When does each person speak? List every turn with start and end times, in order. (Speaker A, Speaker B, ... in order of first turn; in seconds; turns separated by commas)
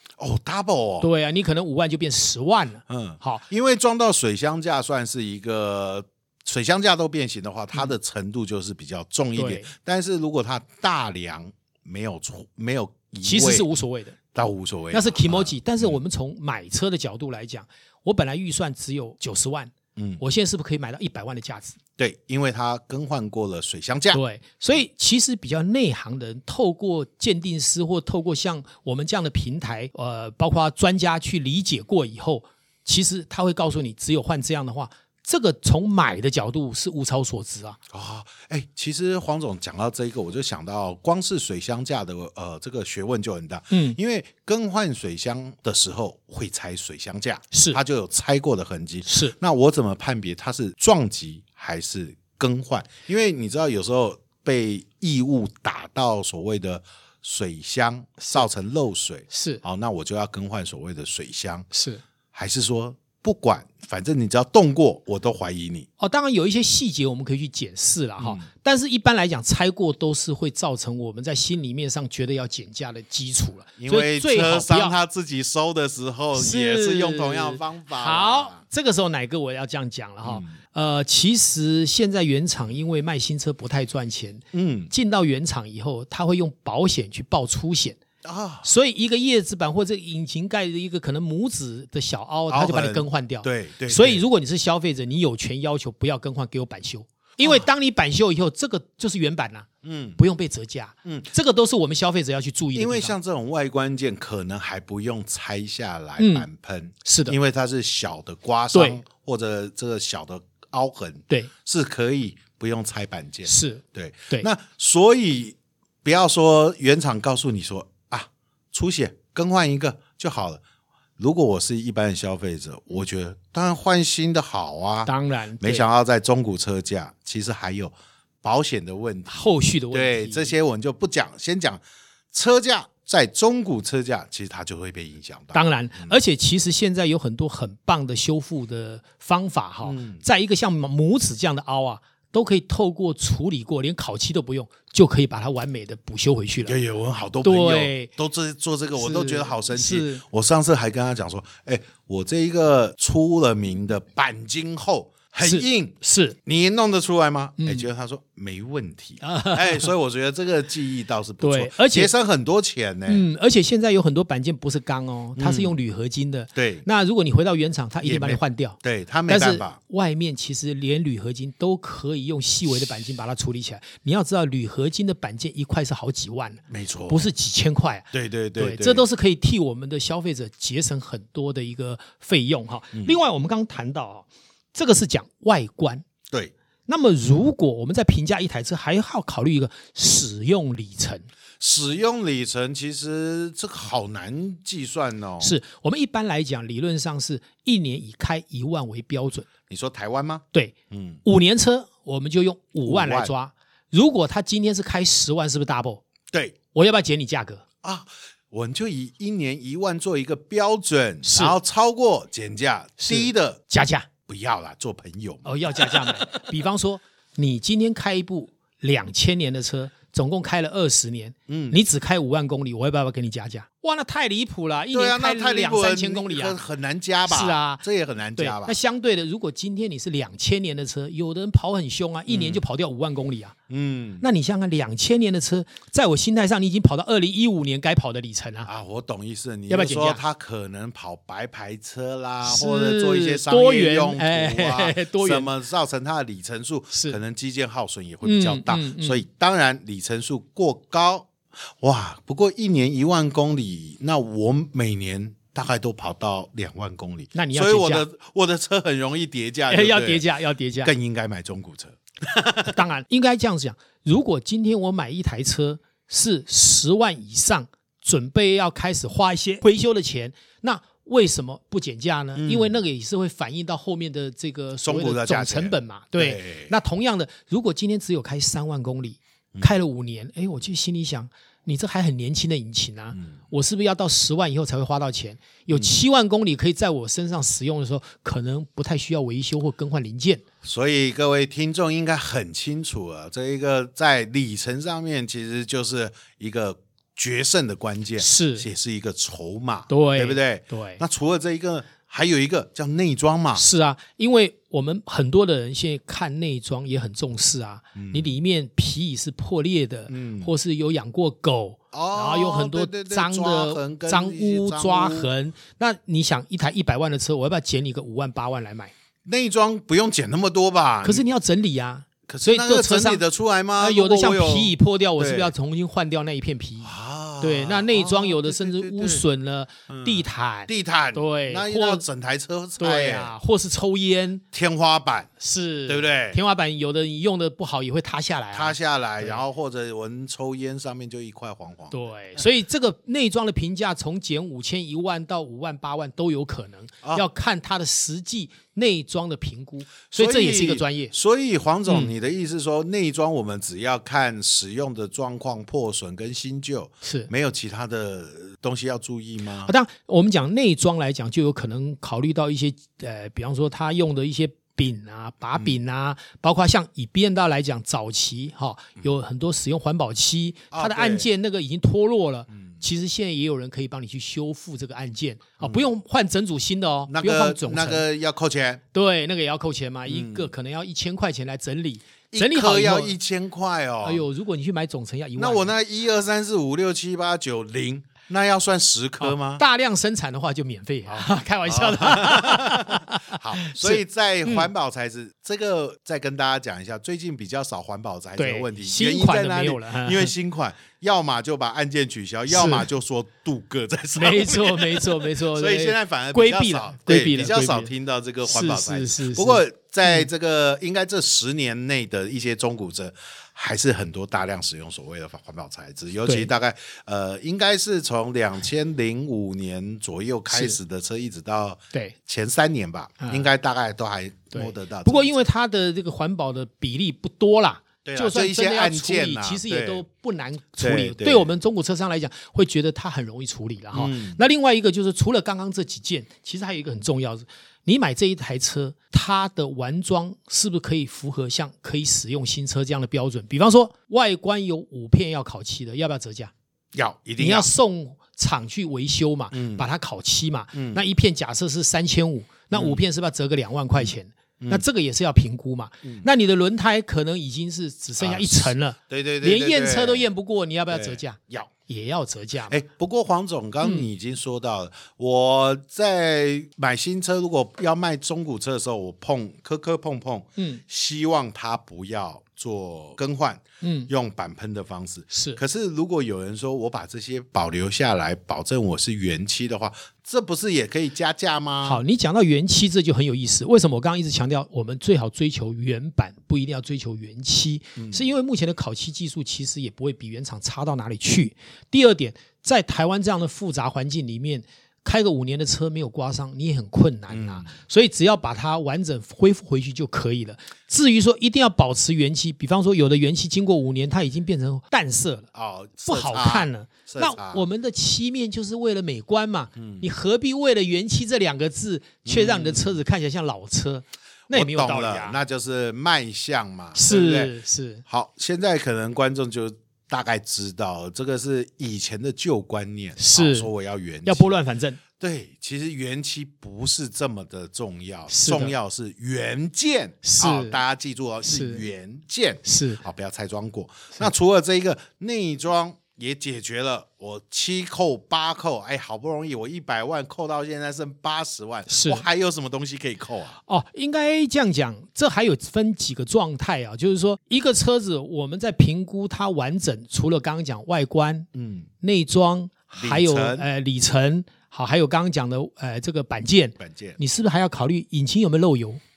Speaker A: 0.2-1.1, Speaker B: 1.0-3.4, Speaker A: 2.9-13.7, Speaker B: 9.3-9.7, Speaker B: 13.2-14.2, Speaker A: 14.3-16.0, Speaker B: 14.9-21.8, Speaker A: 19.9-20.2, Speaker A: 22.0-24.8, Speaker B: 24.1-37.8, Speaker A: 37.9-61.7, Speaker B: 43.7-44.0, Speaker B: 47.5-47.8, Speaker B: 49.0-49.3, Speaker B: 59.3-59.6, Speaker B: 61.7-62.0, Speaker A: 62.3-65.9, Speaker B: 66.0-75.0, Speaker A: 68.2-68.5, Speaker A: 73.8-78.6, Speaker B: 76.3-88.0, Speaker A: 80.2-80.5, Speaker A: 84.5-84.9, Speaker A: 88.2-88.7, Speaker B: 88.6-103.2, Speaker A: 92.5-94.2, Speaker A: 97.4-97.7, Speaker A: 99.8-100.2, Speaker A: 102.7-120.6, Speaker B: 106.2-106.5, Speaker B: 107.0-107.3, Speaker B: 108.7-109.0, Speaker B: 113.5-114.5, Speaker A: 121.2-136.2, Speaker B: 125.0-125.9, Speaker B: 129.3-130.5, Speaker B: 135.5-146.8, Speaker A: 139.8-140.2, Speaker A: 146.6-163.3, Speaker B: 147.4-148.1, Speaker B: 148.9-150.2, Speaker B: 155.4-156.4, Speaker B: 157.6-157.9, Speaker B: 159.2-159.9, Speaker B: 161.4-162.1, Speaker B: 163.1-186.0, Speaker A: 165.4-165.8, Speaker A: 166.5-166.8, Speaker A: 168.0-169.8, Speaker A: 176.7-177.3, Speaker A: 178.1-179.1, Speaker A: 182.9-183.2, Speaker B: 186.9-191.3, Speaker A: 191.6-195.6, Speaker B: 195.4-199.5, Speaker A: 199.7-201.2, Speaker B: 200.5-206.0, Speaker A: 202.8-203.3, Speaker A: 206.3-206.6, Speaker B: 206.7-207.6, Speaker A: 207.8-213.6, Speaker B: 211.2-211.6, Speaker B: 213.0-214.1, Speaker A: 214.2-216.3, Speaker B: 215.4-226.6, Speaker A: 221.5-221.8, Speaker A: 224.9-228.8, Speaker B: 227.2-227.8, Speaker B: 228.3-233.6, Speaker A: 232.3-232.6, Speaker A: 233.7-234.2, Speaker B: 234.2-238.7, Speaker A: 238.6-260.3, Speaker B: 239.7-240.2, Speaker B: 242.4-245.5, Speaker B: 248.2-249.2, Speaker B: 257.3-258.0, Speaker B: 259.7-260.9, Speaker A: 260.8-262.8, Speaker B: 262.6-290.4, Speaker A: 272.4-272.8, Speaker A: 274.8-276.7, Speaker A: 279.5-279.8, Speaker A: 290.6-303.6, Speaker B: 298.2-298.7, Speaker B: 299.9-301.0, Speaker B: 303.5-318.9, Speaker A: 307.9-308.3, Speaker A: 310.1-310.5, Speaker A: 311.9-315.3, Speaker A: 319.2-321.2, Speaker B: 321.0-323.2, Speaker A: 322.3-325.5, Speaker B: 323.8-326.9, Speaker A: 326.8-329.2, Speaker B: 327.4-332.0, Speaker A: 329.9-333.3, Speaker B: 332.8-334.4, Speaker A: 334.5-335.3, Speaker B: 335.4-339.4, Speaker A: 335.9-336.4, Speaker A: 338.5-342.4, Speaker B: 341.9-351.1, Speaker A: 350.1-359.7, Speaker B: 351.9-352.1, Speaker B: 357.0-357.3, Speaker B: 359.6-378.1, Speaker A: 370.7-371.3, Speaker A: 372.5-372.8, Speaker A: 375.6-375.9, Speaker A: 377.1-378.8, Speaker B: 378.9-383.1, Speaker A: 380.1-380.5, Speaker A: 382.3-384.2, Speaker B: 384.0-385.7, Speaker A: 385.4-389.6, Speaker B: 389.2-394.7, Speaker A: 391.6-425.4, Speaker B: 398.4-400.3, Speaker B: 402.5-402.9, Speaker B: 404.1-410.3, Speaker B: 420.5-420.8, Speaker B: 423.2-423.5, Speaker B: 424.5-446.5, Speaker A: 428.0-430.0, Speaker A: 430.8-431.5, Speaker A: 433.9-434.4, Speaker A: 446.9-447.7, Speaker B: 447.4-462.8, Speaker A: 449.5-449.9, Speaker A: 450.7-451.0, Speaker A: 452.7-453.0, Speaker A: 454.0-454.8, Speaker A: 456.0-456.3, Speaker A: 458.2-460.3, Speaker A: 460.9-461.7, Speaker A: 462.7-482.0, Speaker B: 463.8-464.1, Speaker B: 470.6-470.8, Speaker B: 473.8-474.1, Speaker B: 475.3-475.6, Speaker B: 481.8-505.5, Speaker A: 488.0-488.3, Speaker A: 497.3-497.7, Speaker A: 505.5-507.6, Speaker B: 506.1-515.4, Speaker A: 509.7-510.1, Speaker A: 512.2-513.0, Speaker A: 514.5-524.6, Speaker B: 516.9-518.0, Speaker B: 523.2-523.7, Speaker B: 524.2-525.0, Speaker A: 525.2-543.6, Speaker B: 528.3-528.7, Speaker B: 530.2-530.8, Speaker B: 531.4-531.9, Speaker B: 532.6-533.0, Speaker B: 541.9-542.2, Speaker B: 543.6-551.5, Speaker A: 551.5-551.9, Speaker B: 552.0-559.0, Speaker A: 553.0-553.7, Speaker A: 556.8-557.2